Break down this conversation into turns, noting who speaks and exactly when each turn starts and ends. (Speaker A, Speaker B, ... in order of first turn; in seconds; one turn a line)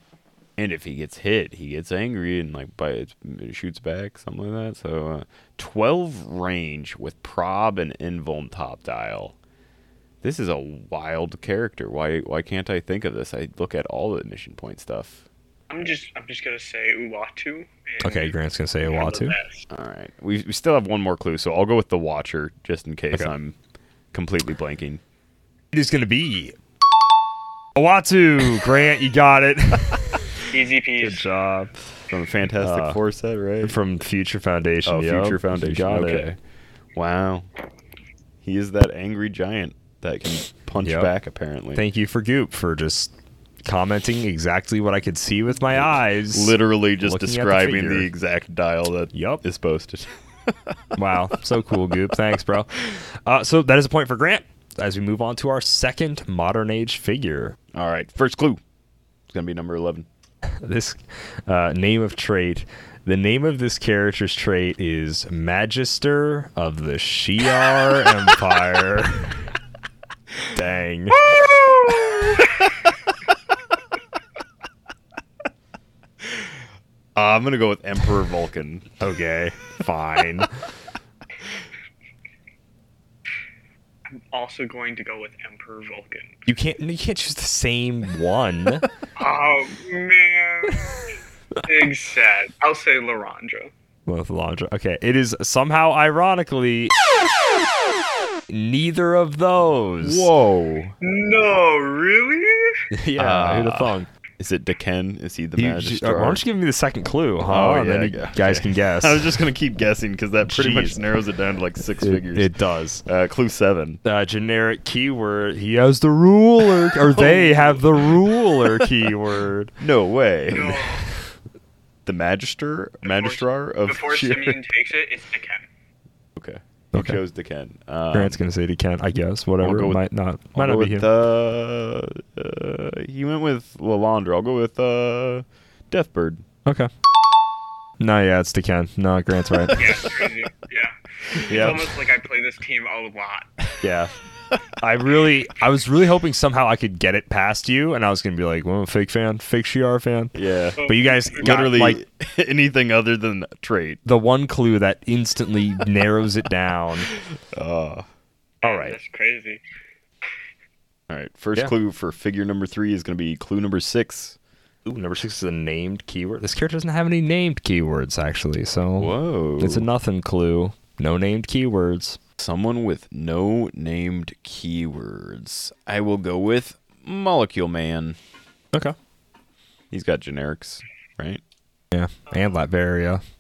Speaker A: 0.6-9.4
Speaker A: 10.2-15.2
Speaker B: 15.7-18.4
Speaker C: 18.0-19.4
Speaker B: 18.9-19.7
Speaker A: 19.7-23.6
Speaker A: 24.1-25.0
Speaker C: 25.7-26.6
Speaker C: 27.8-30.2
Speaker B: 30.5-31.3
Speaker C: 31.0-32.0
Speaker A: 32.1-33.8
Speaker C: 32.6-33.0
Speaker C: 33.6-36.3
Speaker A: 34.9-36.4
Speaker A: 37.0-37.5
Speaker A: 38.4-41.8
Speaker C: 40.8-41.1
Speaker C: 41.8-43.1
Speaker C: 43.6-48.1
Speaker A: 46.3-50.7
Speaker C: 49.1-49.4
Speaker C: 51.0-57.6
Speaker A: 57.7-58.6
Speaker A: 59.3-60.1
Speaker C: 60.6-69.3
Speaker C: 70.5-71.2
Speaker B: 71.3-72.5
Speaker A: 77.2-78.9
Speaker C: 79.0-80.5
Speaker B: 84.3-86.4
Speaker C: 86.5-88.9
Speaker B: 89.2-90.9
Speaker B: 91.7-93.7
Speaker C: 94.1-96.9
Speaker C: 98.5-100.3
Speaker A: 100.0-101.0
Speaker B: 101.0-102.8
Speaker C: 102.9-104.1
Speaker A: 103.2-106.4
Speaker C: 105.6-109.3
Speaker A: 107.5-114.0
Speaker C: 110.5-111.0
Speaker C: 112.0-113.0
Speaker C: 114.0-119.8
Speaker A: 117.0-118.8
Speaker A: 119.8-121.0
Speaker B: 120.5-121.1
Speaker A: 122.1-124.6
Speaker B: 123.1-125.7
Speaker A: 126.4-128.4
Speaker C: 126.9-127.2
Speaker C: 128.1-131.1
Speaker A: 129.6-136.4
Speaker C: 138.0-139.8
Speaker A: 139.5-139.9
Speaker B: 139.8-143.7
Speaker A: 141.3-141.8
Speaker C: 141.5-141.9
Speaker C: 143.8-144.1
Speaker C: 144.8-152.0
Speaker A: 150.3-150.8
Speaker B: 150.8-151.5
Speaker A: 151.4-154.0
Speaker C: 154.1-157.1
Speaker A: 157.1-158.1
Speaker B: 158.6-159.6
Speaker C: 158.6-159.0
Speaker A: 161.1-164.4
Speaker C: 164.8-172.2
Speaker A: 169.0-169.9
Speaker A: 172.4-178.2
Speaker A: 179.9-181.4
Speaker C: 181.9-183.2